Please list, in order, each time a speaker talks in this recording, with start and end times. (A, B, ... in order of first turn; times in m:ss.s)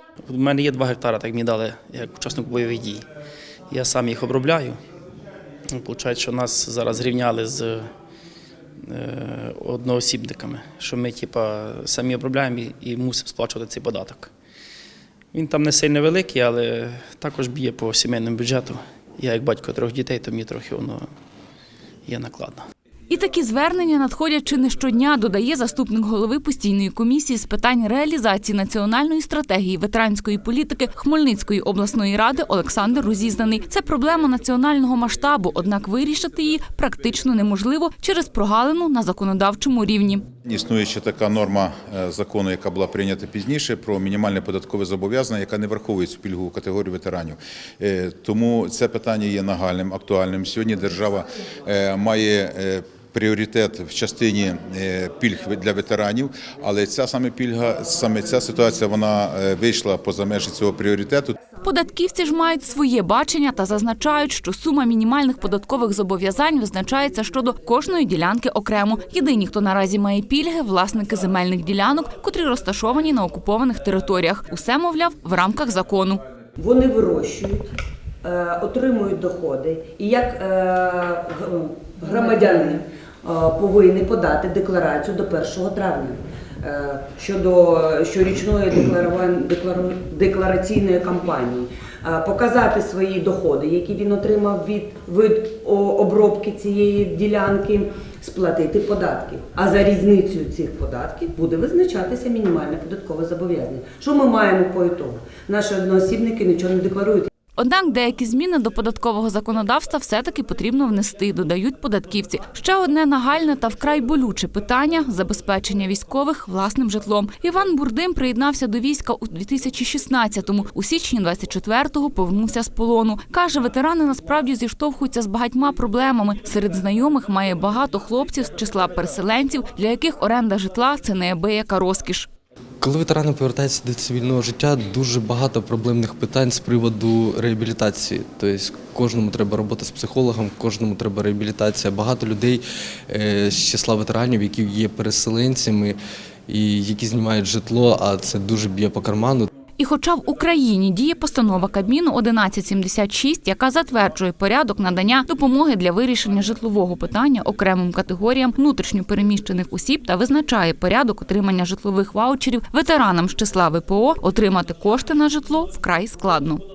0:00.3-0:03.1 A
0:03.7-0:04.8 A
0:05.7-0:07.9 A
0:08.9-0:14.3 A
0:15.3-0:21.1 A
0:22.1-0:22.6 A
0:23.1-0:40.2 B
0:40.4-1:01.4 C
1:01.6-1:16.2 B
1:16.6-1:17.6 D
1:18.2-1:21.5 D
1:22.0-1:47.3 D
1:47.6-2:12.3 B
2:12.8-2:29.5 E
2:29.8-2:46.6 B